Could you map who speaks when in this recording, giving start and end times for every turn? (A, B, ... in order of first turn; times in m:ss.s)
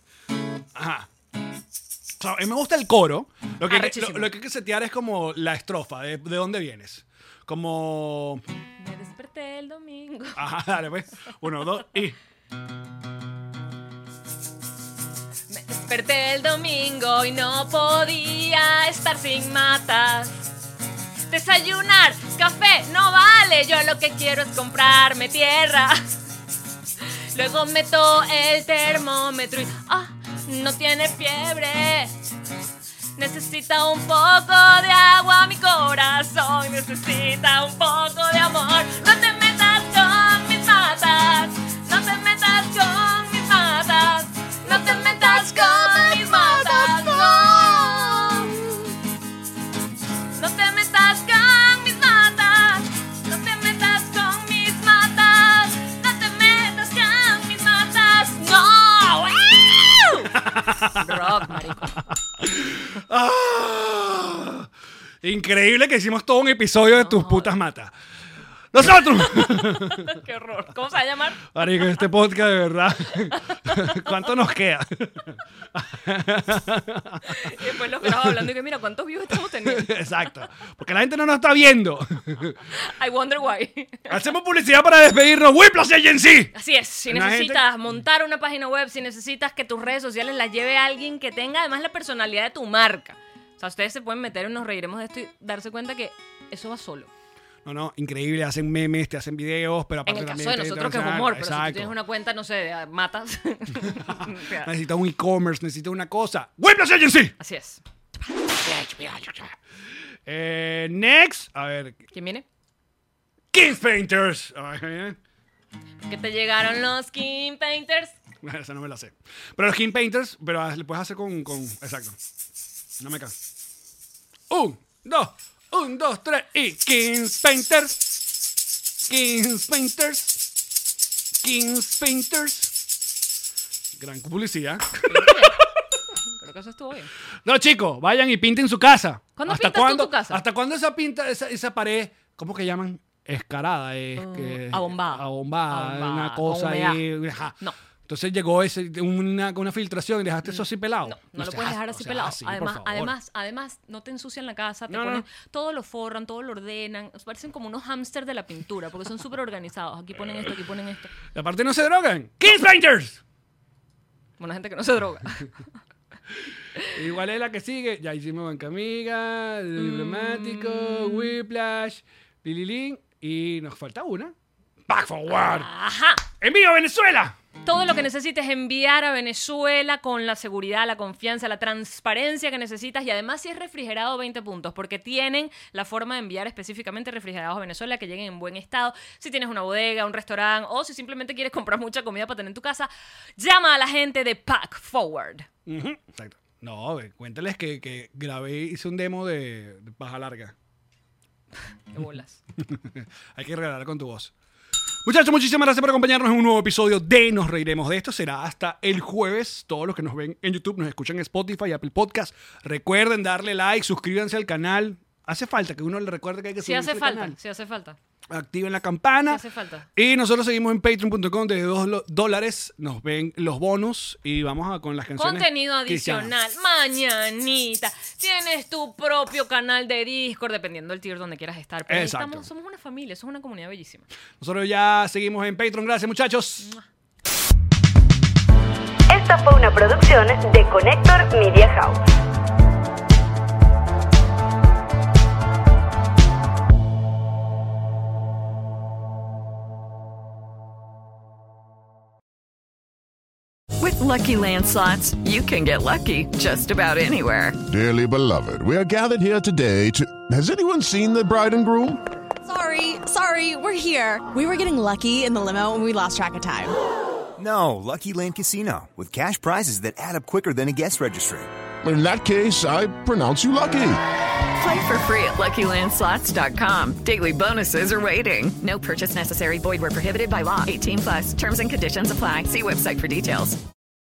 0:00.7-0:01.1 A
0:02.2-0:08.4 A
0:03.7-0:04.3 B
0:08.8-0:10.5 B
0:10.3-0:12.2 A
0:15.5-0:20.5 B
0:21.3-0:26.2 B
0:27.3-0:32.1 B
0:33.2-0:48.5 B
0:44.6-0:48.6 A
0:50.4-1:02.0 B
1:00.2-1:01.6 A
1:02.4-1:04.7 A
1:05.2-1:07.9 A
1:06.9-1:07.5 B
1:08.7-1:10.2 A
1:08.9-1:12.0 B
1:11.5-1:18.5 A
1:13.2-1:14.2 B
1:17.2-1:20.0 B
1:19.6-1:22.6 A
1:22.7-1:24.2 B
1:24.1-1:26.5 A
1:26.5-1:37.1 B
1:27.1-1:27.6 A
1:37.6-1:41.9 A
1:40.0-1:44.7 B
1:43.8-1:47.4 A
1:47.4-1:47.8 B
1:48.6-1:49.6 A
1:50.2-1:52.0 A
1:52.1-1:52.4 B
1:53.5-1:55.2 A
1:56.1-1:58.1 B
1:58.4-2:02.2 A
2:03.0-2:03.3 A
2:04.5-2:08.4 A
2:09.0-2:10.5 A
2:11.4-2:12.8 A
2:14.0-2:15.7 A
2:15.1-2:15.6 B
2:16.2-2:17.1 B
2:17.4-2:27.6 A
2:19.4-2:20.4 B
2:24.2-2:27.0 B
2:28.1-2:33.1 A
2:30.4-2:41.1 B
2:34.9-2:35.2 A
2:41.3-2:43.2 A
2:44.4-2:45.5 B
2:46.9-2:54.3 A
2:49.8-2:51.4 B
2:54.9-2:55.7 A
2:55.3-2:56.2 B
2:56.4-2:57.4 A
2:57.6-3:15.5 B
3:15.6-3:20.5 A
3:21.9-3:22.4 B
3:22.6-3:24.3 A
3:25.0-3:37.4 A
3:36.6-3:38.0 B
3:38.3-3:39.4 A
3:39.3-3:39.9 B
3:40.0-3:46.3 A
3:45.2-3:54.0 B
3:51.9-3:52.5 A
3:54.4-3:56.7 A
3:56.6-3:56.8 B
3:59.1-4:02.0 C
4:13.8-4:17.6 D
4:17.6-4:22.0 E
4:22.4-4:26.7 F
4:27.4-4:31.5 G
4:31.8-4:34.0 E
4:34.6-4:43.6 D